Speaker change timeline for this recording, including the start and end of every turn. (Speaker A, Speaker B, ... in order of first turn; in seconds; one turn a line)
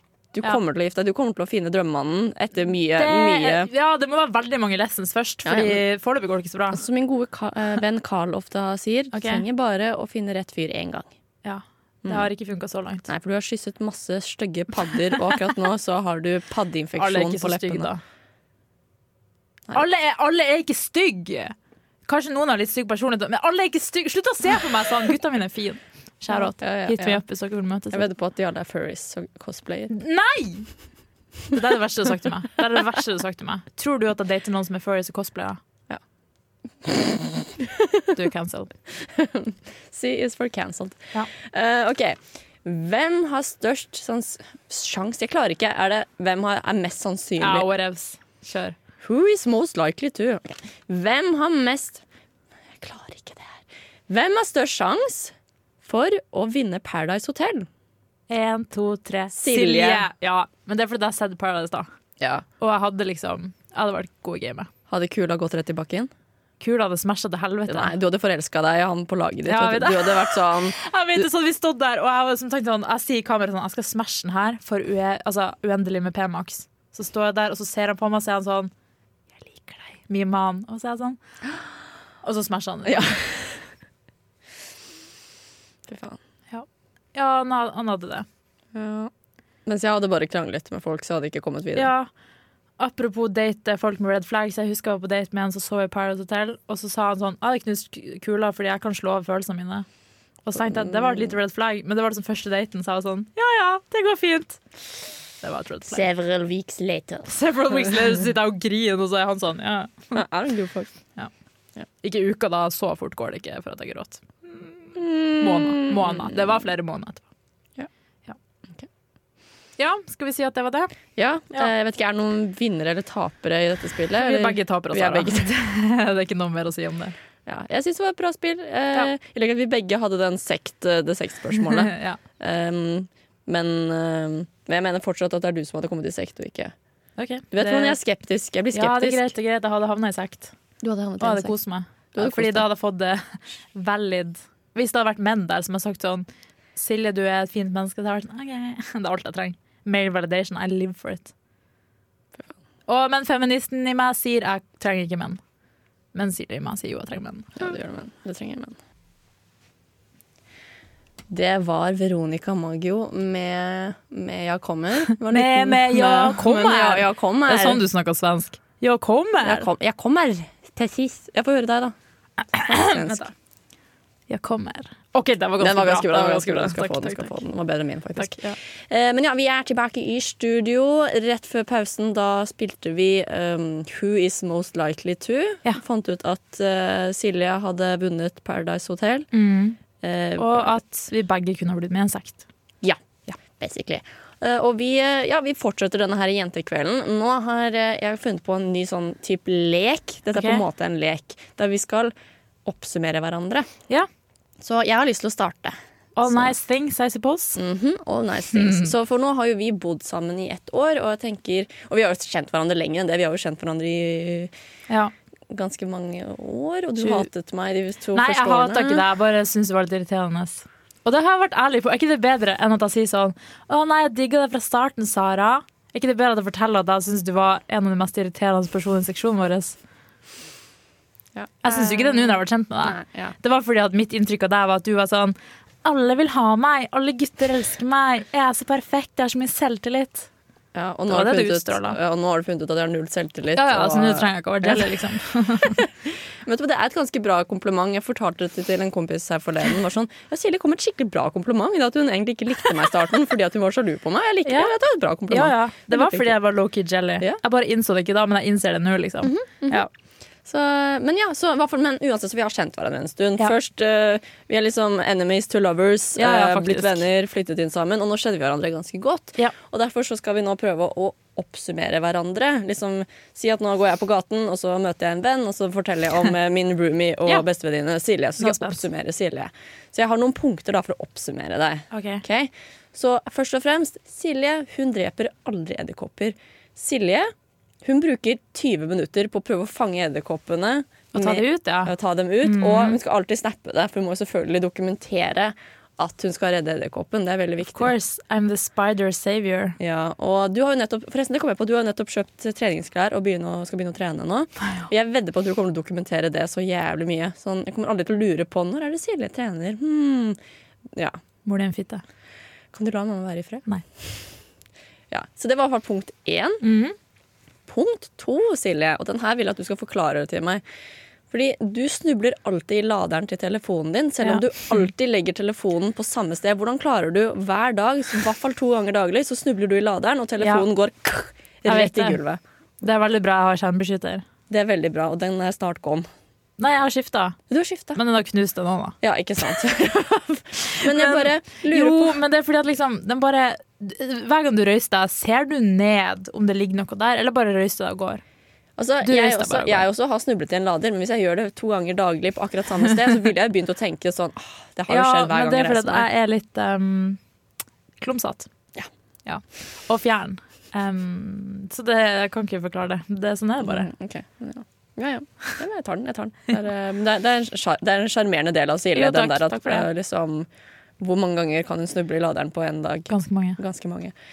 Speaker A: 0.3-3.7
Speaker B: 3.0-6.8
Speaker A: 5.4-5.8
Speaker A: 6.7-11.1
Speaker B: 9.1-9.4
Speaker B: 11.4-13.1
Speaker A: 13.1-17.9
Speaker B: 17.0-18.0
Speaker B: 19.7-21.5
Speaker B: 22.1-28.0
Speaker A: 26.3-27.2
Speaker A: 27.9-29.9
Speaker B: 29.9-30.7
Speaker B: 31.5-35.6
Speaker A: 36.8-38.0
Speaker B: 38.1-38.7
Speaker A: 38.9-47.7
Speaker B: 47.4-48.8
Speaker A: 49.0-52.0
Speaker A: 52.8-57.7
Speaker B: 58.3-61.9
Speaker A: 59.3-60.0
Speaker B: 62.6-64.7
Speaker A: 64.9-66.1
Speaker B: 66.6-67.9
Speaker A: 67.7-70.8
Speaker B: 69.5-78.7
Speaker B: 79.5-81.2
Speaker B: 82.2-83.2
Speaker A: 82.8-83.2
Speaker A: 85.9-86.2
Speaker B: 86.5-88.2
Speaker A: 88.7-89.1
Speaker A: 89.7-91.9
Speaker B: 91.8-92.1
Speaker B: 92.8-99.8
Speaker B: 100.5-104.6
Speaker A: 100.6-101.3
Speaker B: 105.4-106.0
Speaker A: 105.9-107.3
Speaker B: 107.3-110.1
Speaker A: 110.1-110.9
Speaker B: 112.0-117.2
Speaker A: 114.9-116.6
Speaker B: 119.8-120.9
Speaker A: 121.2-125.5
Speaker B: 124.2-127.1
Speaker A: 127.5-136.7
Speaker B: 131.7-132.2
Speaker B: 137.2-138.0
Speaker A: 137.5-139.2
Speaker B: 138.7-140.5
Speaker A: 140.8-141.5
Speaker B: 141.2-151.3
Speaker A: 142.1-142.7
Speaker B: 152.9-155.4
Speaker B: 156.1-157.7
Speaker A: 157.6-158.8
Speaker A: 161.3-167.8
Speaker B: 165.3-169.7
Speaker A: 169.4-171.9
Speaker B: 172.5-173.3
Speaker A: 172.6-173.3
Speaker B: 174.3-177.3
Speaker A: 175.6-189.3
Speaker B: 178.2-178.5
Speaker B: 189.3-189.8
Speaker A: 190.0-190.8
Speaker B: 190.4-192.4
Speaker A: 192.8-202.1
Speaker B: 200.3-200.6
Speaker A: 202.6-203.7
Speaker A: 204.6-206.5
Speaker B: 206.2-207.6
Speaker A: 207.6-214.5
Speaker B: 208.5-208.9
Speaker A: 215.5-219.0
Speaker B: 218.1-229.8
Speaker A: 231.3-233.3
Speaker B: 231.6-240.3
Speaker A: 240.7-244.9
Speaker B: 241.1-242.0
Speaker B: 243.6-245.8
Speaker A: 245.6-245.9
Speaker A: 246.4-256.4
Speaker B: 254.4-254.7
Speaker B: 255.3-259.9
Speaker A: 259.2-259.9
Speaker A: 260.4-297.9
Speaker B: 266.2-267.0
Speaker B: 278.4-278.8
Speaker B: 281.9-282.2
Speaker B: 291.1-291.9
Speaker B: 292.4-293.0
Speaker B: 297.7-299.8
Speaker A: 299.8-310.4
Speaker A: 310.9-311.2
Speaker B: 311.4-312.0
Speaker A: 312.7-313.6
Speaker A: 315.1-316.6
Speaker B: 316.6-316.9
Speaker A: 317.7-320.6
Speaker A: 321.3-332.4
Speaker B: 331.6-332.2
Speaker B: 332.8-334.2
Speaker A: 334.5-336.1
Speaker B: 336.6-337.4
Speaker A: 337.5-338.0
Speaker B: 337.9-338.9
Speaker A: 339.0-342.2
Speaker B: 340.8-348.2
Speaker A: 348.8-356.1
Speaker B: 349.0-349.9
Speaker B: 354.9-357.2
Speaker B: 358.0-358.5
Speaker B: 359.2-363.9
Speaker A: 363.6-370.5
Speaker B: 368.9-369.9
Speaker A: 371.0-374.1
Speaker B: 373.1-373.6